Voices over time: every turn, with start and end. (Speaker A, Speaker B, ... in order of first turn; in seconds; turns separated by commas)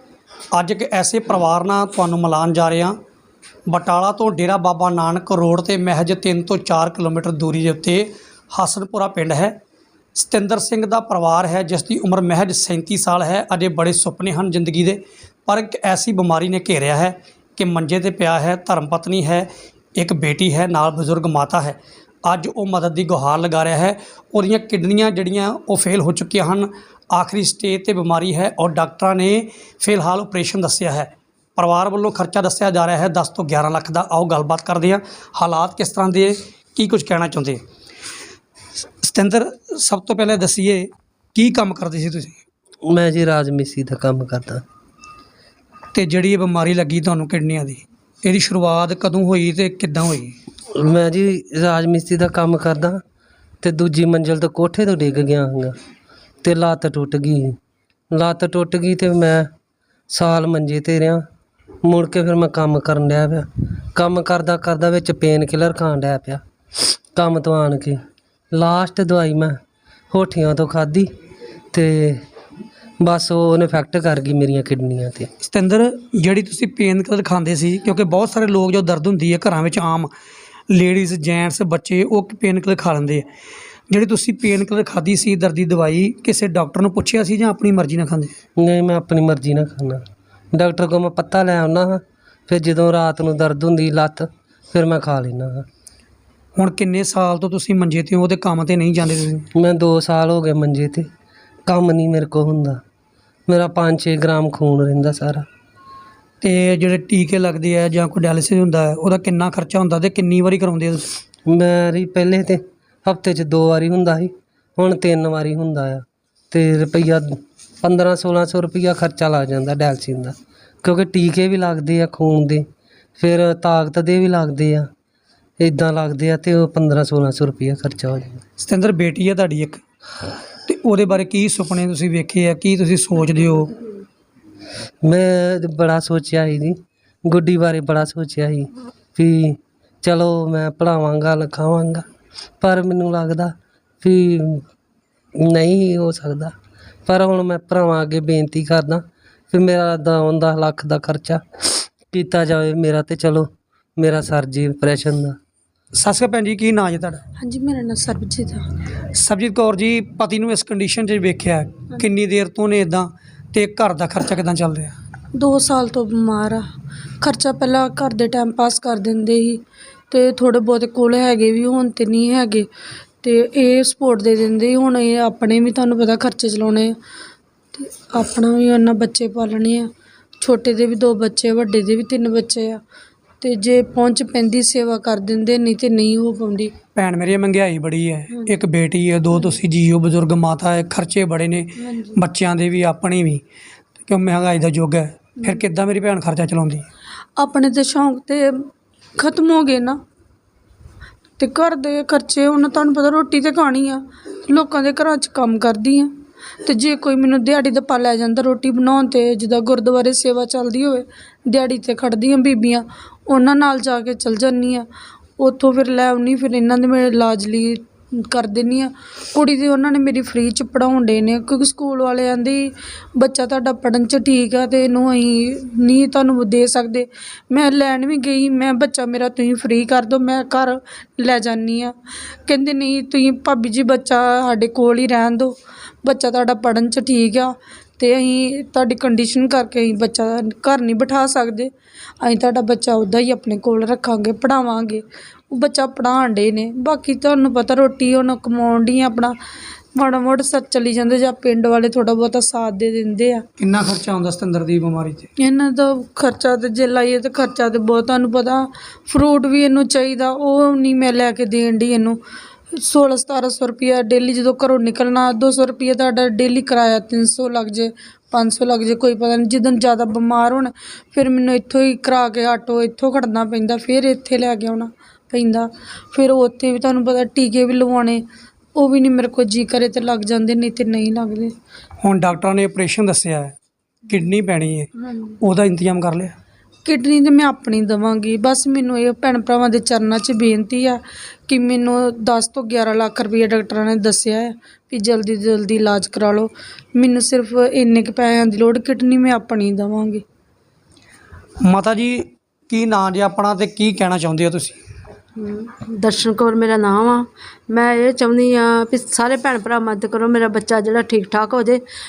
Speaker A: 0.5-3.0, Speaker A: 3.7-9.6, Speaker A: 10.1-37.6, Speaker A: 39.0-42.4, Speaker B: 42.8-44.6, Speaker A: 45.9-50.4, Speaker B: 50.7-53.0, Speaker B: 53.6-55.7, Speaker B: 56.4-57.6, Speaker B: 58.1-59.5, Speaker B: 60.1-61.2, Speaker B: 61.8-66.4, Speaker B: 67.1-68.0, Speaker B: 68.5-69.6, Speaker B: 70.1-71.1, Speaker B: 71.7-72.2, Speaker B: 73.0-75.3, Speaker A: 75.4-80.1, Speaker A: 80.7-83.2, Speaker A: 83.9-88.3, Speaker B: 88.6-95.7, Speaker A: 96.5-99.5, Speaker B: 99.5-101.1, Speaker B: 101.7-102.8, Speaker B: 103.5-105.5, Speaker A: 106.4-111.1, Speaker B: 111.5-122.7, Speaker B: 123.2-124.9, Speaker B: 125.6-128.4, Speaker A: 128.6-129.8, Speaker A: 130.7-133.7, Speaker B: 135.0-142.0, Speaker B: 142.6-144.6, Speaker B: 145.4-146.5, Speaker B: 147.1-155.4, Speaker A: 155.9-157.2, Speaker C: 157.4-158.7, Speaker A: 159.1-164.9, Speaker C: 165.3-166.7, Speaker C: 167.2-172.7, Speaker C: 173.2-176.9, Speaker C: 177.7-179.9, Speaker C: 180.4-182.8, Speaker C: 183.4-186.7, Speaker A: 186.9-193.4, Speaker C: 188.3-188.6, Speaker C: 191.8-192.2, Speaker A: 194.0-196.9, Speaker C: 197.4-200.0, Speaker C: 201.4-214.8, Speaker C: 215.4-249.3, Speaker C: 249.9-253.4, Speaker A: 253.6-255.3, Speaker C: 255.4-262.2, Speaker C: 262.7-278.2, Speaker C: 278.7-281.5, Speaker A: 282.0-283.6, Speaker A: 284.1-284.9, Speaker C: 285.0-285.3, Speaker A: 285.4-286.3, Speaker C: 286.8-300.2, Speaker A: 301.6-304.8, Speaker D: 305.4-311.8